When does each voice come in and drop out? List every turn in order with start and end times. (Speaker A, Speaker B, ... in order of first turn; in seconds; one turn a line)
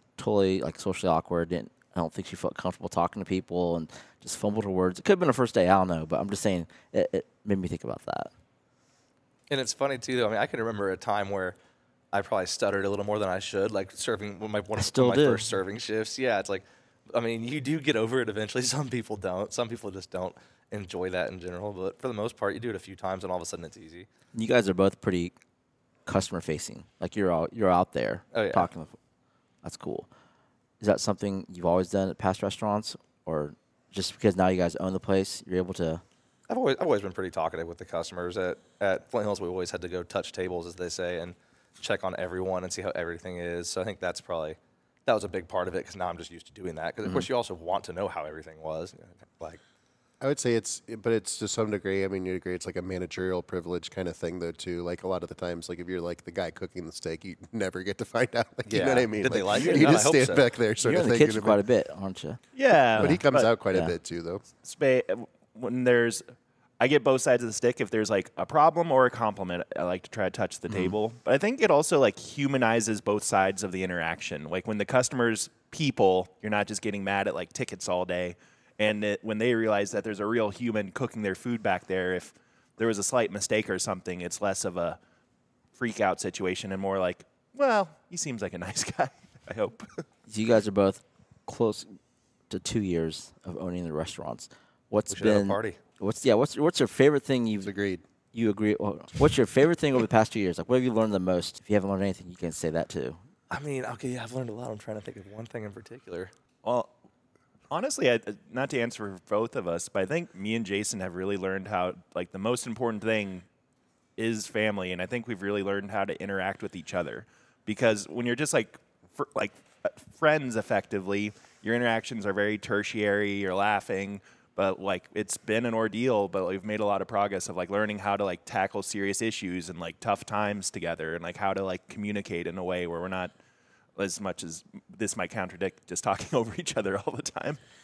Speaker A: 0.2-8.3
Speaker B: 9.5-11.6
Speaker B: 12.1-24.1
Speaker A: 14.8-15.4
Speaker A: 24.3-25.3
Speaker A: 26.1-29.0
Speaker B: 28.3-28.7
Speaker A: 29.6-30.1
Speaker A: 30.8-36.0
Speaker B: 36.5-49.6
Speaker C: 50.2-61.6
Speaker B: 58.6-60.5
Speaker A: 60.8-62.4
Speaker D: 62.5-63.5
Speaker A: 63.0-63.9
Speaker C: 63.0-64.4
Speaker D: 64.6-66.2
Speaker D: 66.8-85.0
Speaker A: 70.7-70.9
Speaker D: 85.7-89.9
Speaker A: 90.3-92.0
Speaker A: 92.5-97.7
Speaker B: 95.1-95.8
Speaker C: 97.6-98.0
Speaker A: 98.3-103.2
Speaker B: 103.5-106.3
Speaker D: 106.6-106.9
Speaker D: 107.7-113.5
Speaker D: 114.2-133.3
Speaker D: 133.9-137.6